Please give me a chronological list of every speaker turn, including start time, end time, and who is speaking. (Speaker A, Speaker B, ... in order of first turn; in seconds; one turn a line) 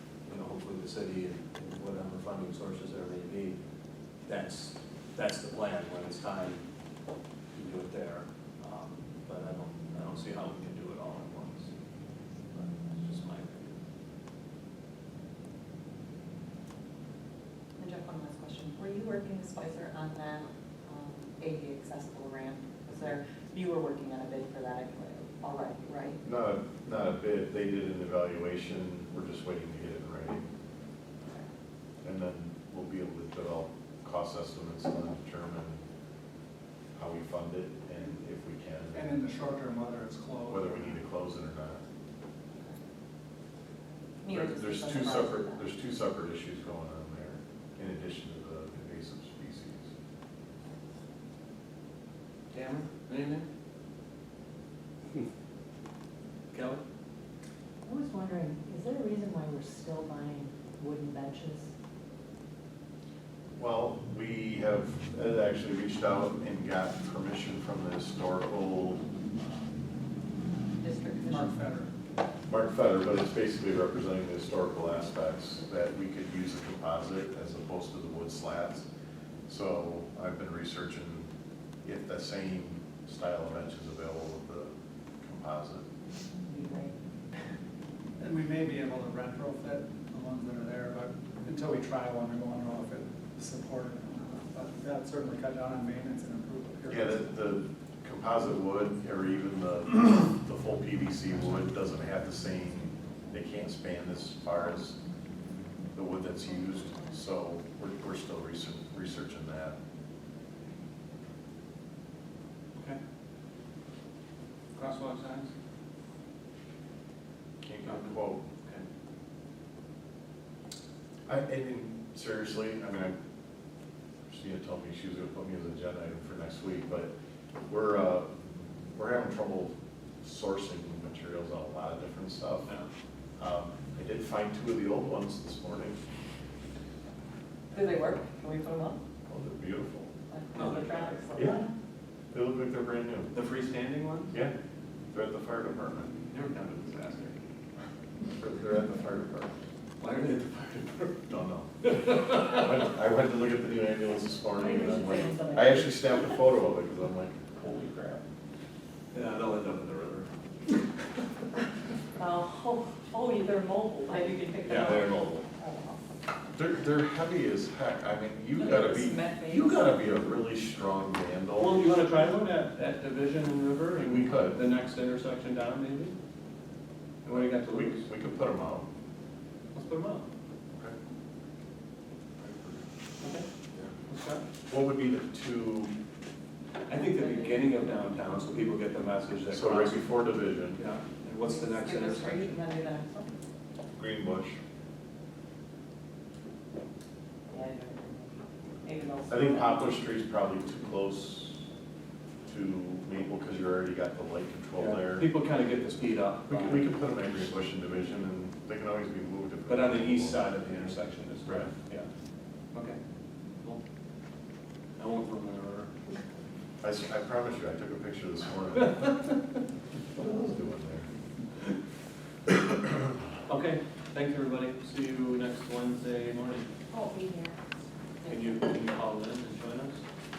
Speaker A: 0.2-3.6
Speaker A: 4.2-6.6
Speaker A: 7.5-11.7
Speaker A: 12.5-13.8
Speaker B: 17.8-26.2
Speaker C: 26.2-30.5
Speaker C: 32.0-35.8
Speaker C: 37.0-39.2
Speaker D: 38.9-41.0
Speaker C: 40.5-41.8
Speaker B: 44.2-45.6
Speaker C: 44.3-49.9
Speaker A: 52.5-53.5
Speaker A: 56.5-56.8
Speaker E: 57.9-61.7
Speaker C: 63.5-69.0
Speaker B: 70.8-71.5
Speaker D: 71.2-71.9
Speaker C: 72.5-78.8
Speaker C: 79.5-81.3
Speaker C: 81.8-85.8
Speaker B: 86.5-86.9
Speaker D: 88.2-97.3
Speaker C: 96.9-105.0
Speaker C: 105.9-109.8
Speaker A: 114.8-115.5
Speaker C: 117.6-118.4
Speaker A: 117.8-118.9
Speaker C: 121.3-123.1
Speaker C: 124.3-127.1
Speaker C: 127.7-128.3
Speaker C: 128.9-132.7
Speaker C: 133.4-136.0
Speaker B: 137.7-139.0
Speaker C: 139.3-140.1
Speaker B: 140.3-141.7
Speaker A: 140.5-141.2
Speaker C: 141.3-141.7
Speaker C: 142.3-143.3
Speaker A: 143.3-144.3
Speaker C: 145.1-146.1
Speaker A: 146.3-147.4
Speaker C: 148.4-149.6
Speaker A: 150.0-151.2
Speaker C: 151.3-157.6
Speaker A: 151.8-152.7
Speaker E: 154.6-156.1
Speaker A: 157.6-158.2
Speaker A: 159.1-160.3
Speaker B: 162.2-166.0
Speaker A: 164.7-165.5
Speaker C: 166.5-171.9
Speaker B: 168.6-169.9
Speaker A: 171.6-176.2
Speaker C: 174.0-174.6
Speaker A: 177.2-178.1
Speaker C: 177.2-178.9
Speaker A: 179.7-180.3
Speaker A: 184.1-184.4
Speaker C: 184.7-185.9
Speaker A: 186.9-190.1
Speaker B: 186.9-187.7
Speaker C: 189.5-190.8
Speaker A: 190.7-192.7
Speaker B: 191.4-193.3
Speaker C: 194.0-194.6
Speaker B: 197.5-199.9
Speaker C: 199.3-201.7
Speaker C: 202.5-205.3
Speaker A: 204.8-206.9
Speaker C: 206.5-210.9
Speaker A: 209.7-212.1
Speaker C: 211.5-211.7
Speaker A: 212.7-213.0
Speaker A: 215.0-215.9
Speaker C: 216.8-219.2
Speaker A: 218.9-219.3
Speaker C: 220.2-221.1
Speaker A: 223.5-226.7
Speaker B: 226.9-227.6
Speaker B: 228.2-228.5
Speaker A: 228.3-230.0